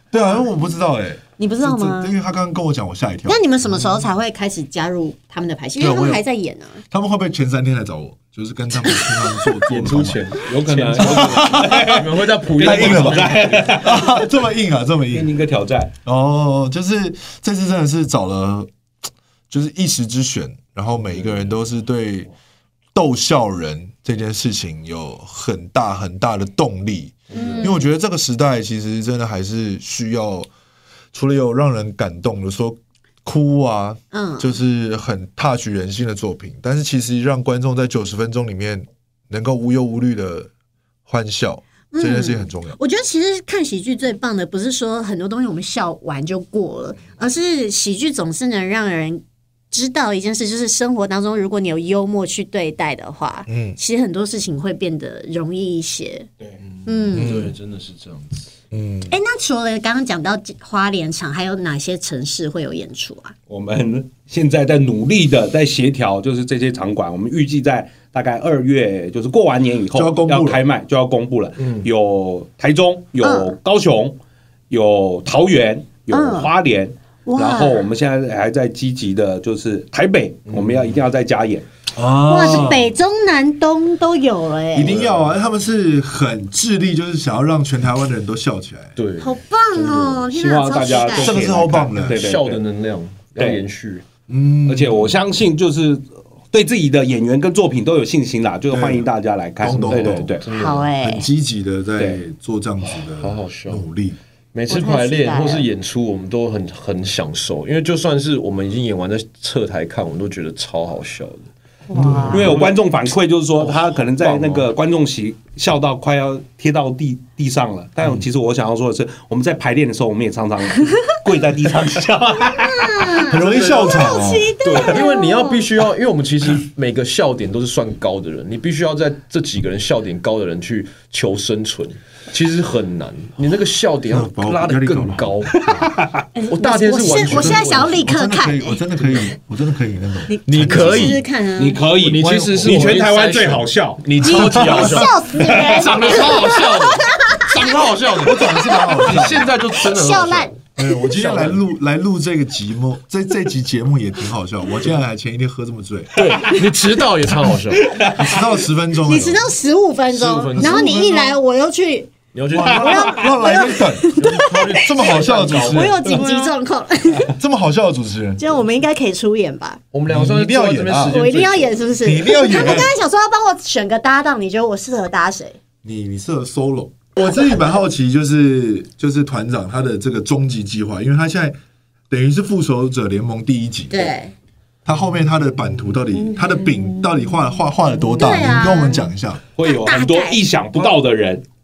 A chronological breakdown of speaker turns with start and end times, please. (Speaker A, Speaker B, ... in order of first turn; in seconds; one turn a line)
Speaker A: 0.1-4.0
Speaker B: 1.4-2.1
Speaker B: 3.3-6.8
Speaker A: 5.8-6.2
Speaker A: 6.9-10.4
Speaker B: 8.8-9.5
Speaker C: 9.7-13.9
Speaker D: 10.4-14.1
Speaker A: 11.0-11.9
Speaker A: 12.6-15.3
Speaker D: 15.1-15.9
Speaker A: 16.1-18.7
Speaker A: 19.5-22.3
Speaker A: 22.9-30.5
Speaker C: 27.3-27.7
Speaker B: 27.3-27.9
Speaker A: 31.1-40.5
Speaker B: 34.1-34.5
Speaker A: 41.1-42.8
Speaker B: 41.9-56.3
Speaker A: 53.5-53.8
Speaker C: 56.6-58.5
Speaker B: 56.9-57.5
Speaker A: 57.1-57.5
Speaker A: 58.7-59.1
Speaker B: 59.1-63.3
Speaker D: 63.5-74.2
Speaker A: 69.9-70.6
Speaker C: 71.6-71.9
Speaker B: 73.2-73.5
Speaker D: 74.7-81.7
Speaker B: 76.1-76.5
Speaker B: 77.3-77.8
Speaker C: 80.5-81.0
Speaker A: 82.0-82.9
Speaker B: 82.3-85.0
Speaker A: 84.7-89.0
Speaker C: 84.8-85.3
Speaker C: 89.0-90.3
Speaker B: 89.2-91.4
Speaker D: 90.3-92.6
Speaker A: 91.2-92.2
Speaker C: 92.0-94.0
Speaker D: 93.3-93.6
Speaker A: 94.3-95.2
Speaker D: 94.7-100.4
Speaker A: 98.7-100.4
Speaker C: 99.7-100.9
Speaker B: 100.5-101.3
Speaker A: 101.0-104.2
Speaker C: 102.8-103.9
Speaker C: 104.5-112.8
Speaker B: 104.7-105.7
Speaker B: 111.9-112.6
Speaker A: 111.9-112.6
Speaker D: 112.3-123.3
Speaker C: 113.6-114.7
Speaker B: 122.6-125.7
Speaker A: 123.2-124.6
Speaker C: 123.3-135.8
Speaker A: 134.1-135.8
Speaker D: 135.6-136.2
Speaker B: 136.3-138.8
Speaker C: 136.5-138.0
Speaker A: 137.2-141.2
Speaker B: 140.3-141.8
Speaker C: 140.4-141.2
Speaker D: 141.6-144.0
Speaker C: 142.0-151.6
Speaker A: 142.2-143.0
Speaker B: 144.2-147.8
Speaker A: 144.3-145.1
Speaker D: 145.4-146.1
Speaker A: 148.2-149.5
Speaker B: 149.8-150.5
Speaker A: 150.8-156.5
Speaker C: 156.1-158.0
Speaker D: 157.8-158.4
Speaker A: 158.1-159.5
Speaker B: 159.0-164.8
Speaker C: 160.1-161.0
Speaker A: 160.5-161.4
Speaker C: 162.3-163.1
Speaker A: 162.5-166.2
Speaker D: 162.8-163.2
Speaker C: 164.2-166.5
Speaker B: 165.5-167.3
Speaker A: 167.3-168.7
Speaker B: 168.4-169.8
Speaker C: 169.9-171.8
Speaker A: 170.1-171.2
Speaker B: 171.1-175.6
Speaker A: 172.0-173.0
Speaker A: 175.8-181.6
Speaker A: 182.1-184.2
Speaker B: 183.9-184.3
Speaker A: 184.8-189.4
Speaker B: 186.3-187.1
Speaker B: 188.1-189.1
Speaker D: 189.6-191.4
Speaker B: 189.6-190.4